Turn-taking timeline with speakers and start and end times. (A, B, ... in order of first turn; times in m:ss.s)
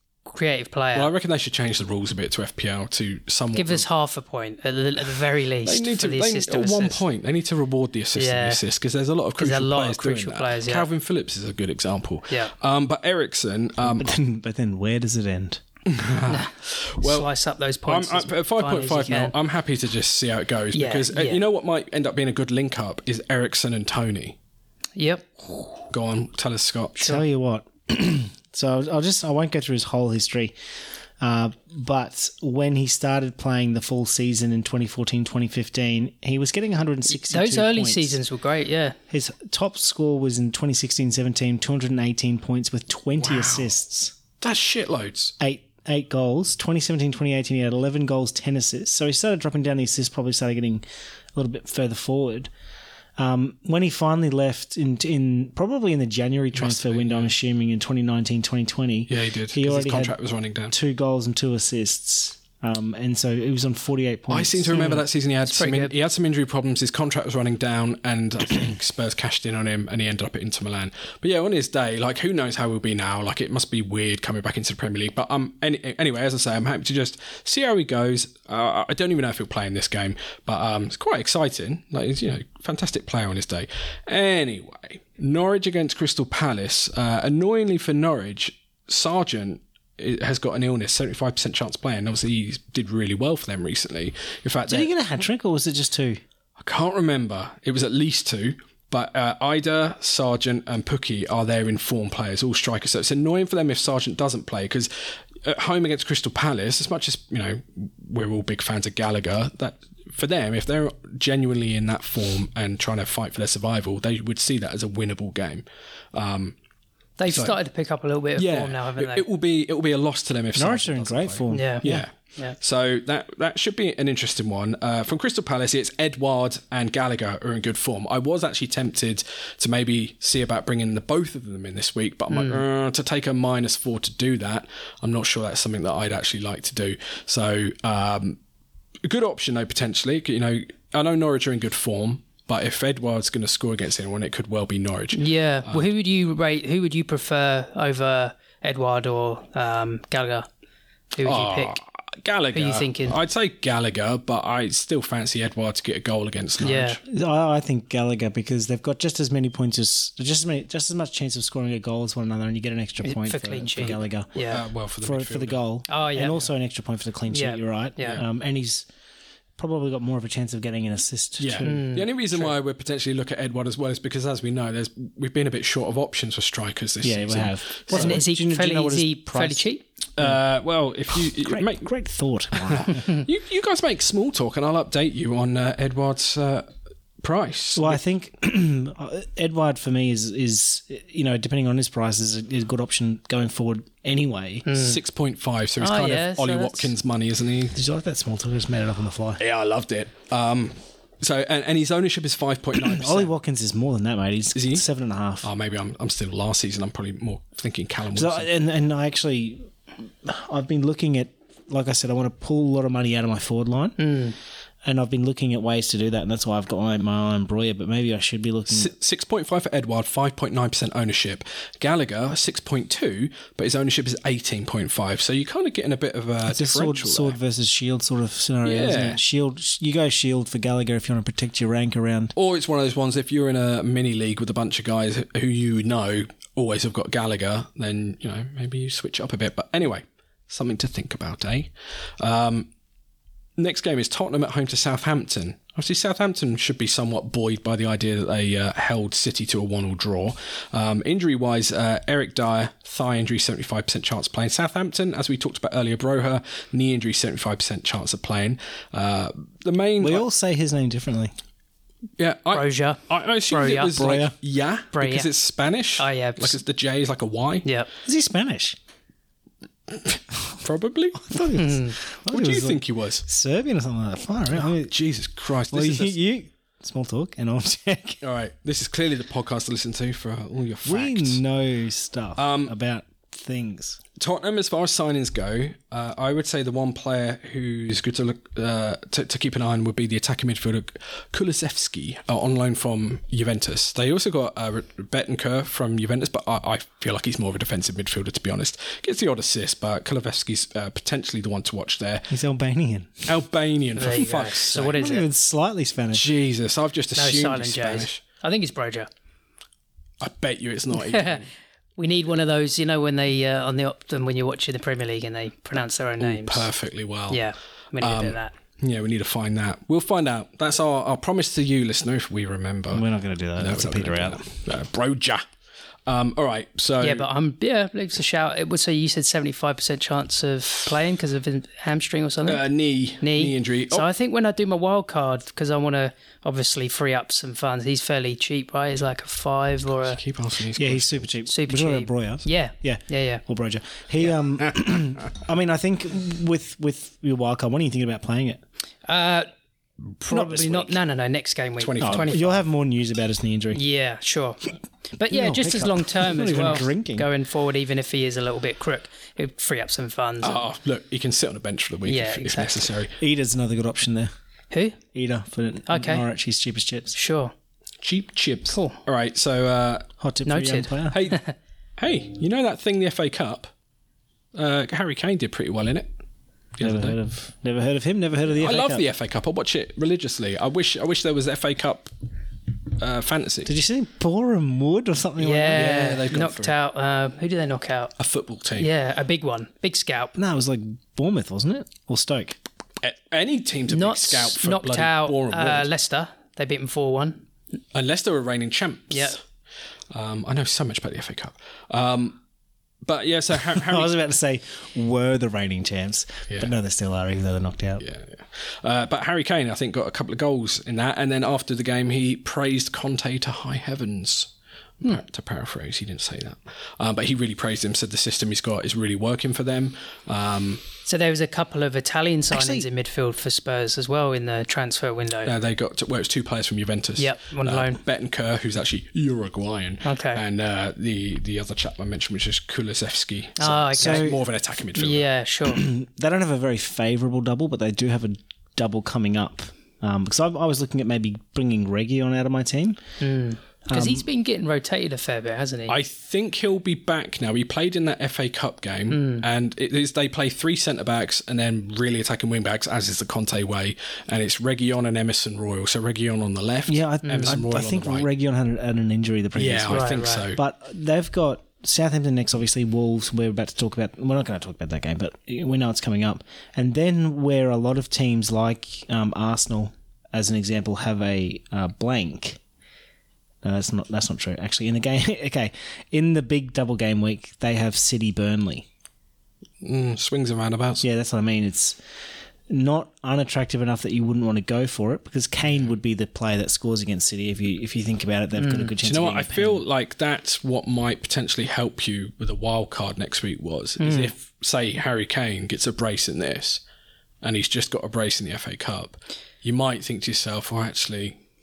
0:00.2-0:01.1 A
0:00.9-0:03.8 B
0:03.5-0:07.0 A
0:05.6-0:14.1 B
0:08.2-0:08.6 A
0:09.4-0:10.9 A
0:13.8-0:15.6 C
0:15.9-0:17.3 B
0:16.3-0:19.3 A
0:17.9-0:24.4 B
0:20.7-0:21.4 A
0:25.0-0:25.8 A
0:25.9-0:27.1 B
0:27.0-0:30.5 C
0:31.2-0:38.2 C
0:37.1-0:39.0 A
0:39.1-0:44.1 C
0:43.2-0:43.7 B
0:44.4-0:45.3 B
0:45.4-0:50.8 C
0:51.3-0:52.5 C
0:53.2-1:00.1 C
0:56.5-0:57.3 B
0:59.1-1:00.7 B
1:00.7-1:05.0 C
1:04.3-1:34.9 B
1:04.7-1:05.9 A
1:34.7-1:36.2 C
1:36.6-1:56.6 B
1:57.2-1:59.2 A
1:57.3-1:57.5 B
1:58.4-2:18.4 B
2:00.5-2:02.0 C
2:01.5-2:02.5 A
2:12.3-2:12.6 A
2:19.0-2:25.9 B
2:25.1-2:30.5 A
2:31.1-2:31.8 A
2:31.2-2:37.0 B
2:32.5-2:33.2 A
2:36.6-2:37.0 A
2:37.0-2:44.3 C
2:43.0-2:44.6 A
2:44.5-2:45.6 B
2:45.0-2:48.9 C
2:45.9-2:46.4 A
2:47.3-2:48.2 A
2:49.6-2:52.5 C
2:51.4-2:58.2 B
2:51.6-2:52.1 A
2:57.0-2:59.6 C
2:57.9-2:59.8 A
3:00.2-3:01.9 B
3:01.1-3:03.1 C
3:02.6-3:06.7 B
3:07.2-3:08.0 B
3:07.7-3:14.7 C
3:14.6-3:15.0 A
3:14.7-3:17.7 B
3:15.8-3:16.9 A
3:17.7-3:19.4 C
3:19.4-3:23.3 B
3:22.8-3:25.5 C
3:24.5-3:24.8 B
3:25.4-3:28.5 B
3:28.1-3:34.0 C
3:34.0-3:34.4 A
3:34.8-3:38.9 C
3:38.7-3:47.4 B
3:46.4-3:52.3 C
3:48.6-3:49.2 B
3:52.4-4:02.7 B
4:03.6-4:20.2 B
4:20.0-4:21.3 C
4:22.2-4:27.7 B
4:22.5-4:24.2 A
4:24.0-4:24.3 C
4:24.9-4:25.3 A
4:26.0-4:26.6 A
4:27.6-4:27.9 A
4:28.0-4:28.8 C
4:29.9-4:31.3 B
4:31.1-4:34.9 C
4:31.6-4:32.0 A
4:32.3-4:33.2 B
4:34.6-4:36.1 B
4:35.7-4:38.2 C
4:38.2-4:41.4 B
4:40.8-4:44.0 C
4:42.4-4:42.7 B
4:44.2-5:02.3 B
5:02.3-5:03.3 C
5:03.2-5:04.9 B
5:04.0-5:05.3 A
5:04.7-5:06.3 C
5:06.1-5:08.2 B
5:07.1-5:09.1 A
5:10.2-5:11.5 B
5:11.0-5:11.4 A
5:12.0-5:16.7 A
5:16.2-5:17.4 B
5:17.3-5:18.5 A
5:18.0-5:23.0 B
5:22.9-5:24.4 C
5:23.6-5:25.4 B
5:26.1-5:27.2 B
5:27.0-5:32.6 A
5:32.4-5:34.1 B
5:33.2-5:40.2 A
5:40.0-5:41.3 B
5:40.8-5:48.6 C
5:41.5-5:43.4 A
5:49.0-5:49.5 A
5:50.2-5:52.6 A
5:50.3-5:50.9 C
5:51.8-5:52.4 B
5:52.0-5:53.8 C
5:53.7-6:00.6 A
5:55.2-5:57.3 C
6:00.4-6:03.2 B
6:02.0-6:02.9 A
6:03.2-6:04.3 C
6:04.7-6:05.0 A
6:05.1-6:07.1 C
6:05.9-6:06.2 A
6:07.1-6:07.5 A
6:08.0-6:10.1 B
6:08.7-6:09.0 A
6:10.2-6:11.3 C
6:10.4-6:11.5 A
6:11.1-6:11.4 B
6:12.0-6:13.7 B
6:14.5-6:16.2 B
6:16.7-6:17.2 B
6:16.8-6:19.0 C
6:18.5-6:22.1 B
6:23.0-6:23.7 B
6:23.6-6:25.9 C
6:25.4-6:28.1 A
6:25.7-6:26.7 B
6:28.2-6:28.9 B
6:28.8-6:30.3 A
6:30.4-6:32.6 C
6:33.0-6:35.9 B
6:33.9-6:37.4 A
6:37.9-6:39.4 B
6:39.1-6:39.4 A
6:40.1-6:42.4 B
6:43.0-6:44.1 B
6:43.7-6:48.0 C
6:48.0-6:54.5 B
6:55.0-7:00.8 B
7:01.0-7:05.5 A
7:02.5-7:02.9 C
7:05.4-7:15.3 B
7:07.2-7:08.0 A
7:10.0-7:10.4 A
7:13.6-7:14.4 A
7:13.9-7:14.4 C
7:14.9-7:15.8 A
7:15.6-7:23.0 C
7:23.2-7:26.0 A
7:23.9-7:24.2 C
7:25.9-7:38.3 B
7:29.1-7:29.4 A
7:36.9-7:52.6 C
7:37.2-7:37.5 A
7:39.5-7:40.6 B
7:39.9-7:40.4 A
7:53.6-7:58.8 C
7:59.8-8:01.0 B
8:01.0-8:02.0 C
8:02.7-8:09.8 C
8:08.6-8:08.9 A
8:09.0-8:16.8 B
8:14.0-8:14.3 A
8:17.4-8:21.4 B